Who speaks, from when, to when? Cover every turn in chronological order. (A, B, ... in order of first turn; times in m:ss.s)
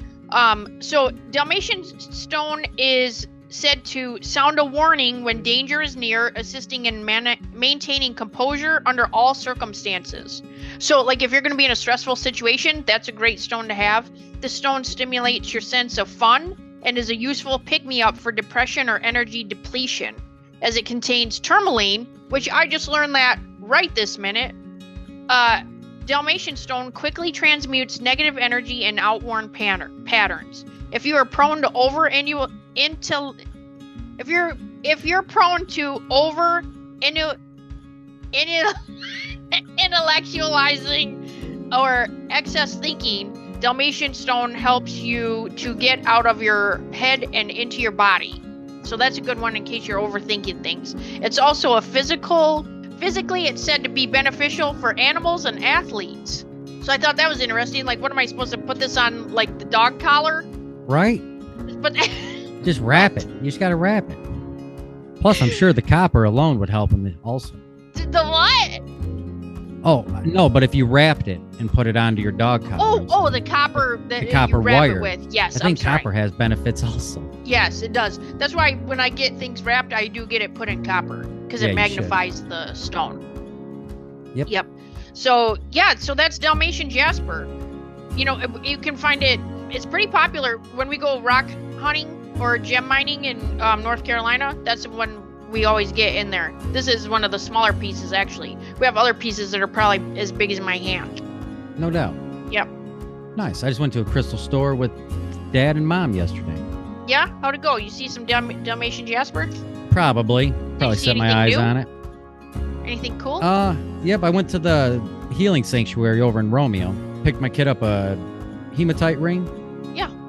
0:00.3-0:24.6 A
0:25.3-0:33.4 A
0:34.2-0:37.4 A
0:38.3-1:00.5 A
1:00.9-1:01.2 B
1:01.7-1:03.2 A
1:02.6-1:04.3 B
1:05.2-1:07.6 B
1:05.3-1:05.6 A
1:08.0-1:08.8 A
1:09.8-1:17.3 B
1:12.8-1:16.1 A
1:17.4-1:23.2 A
1:21.6-1:22.2 B
1:24.5-1:27.5 A
1:28.2-1:41.2 A
1:41.8-1:42.2 B
1:43.4-1:45.0 B
1:45.5-1:46.6 B
1:47.0-1:49.6 A
1:49.9-1:51.9 B
1:50.8-1:51.7 A
1:52.8-1:53.5 A
1:53.4-1:59.5 B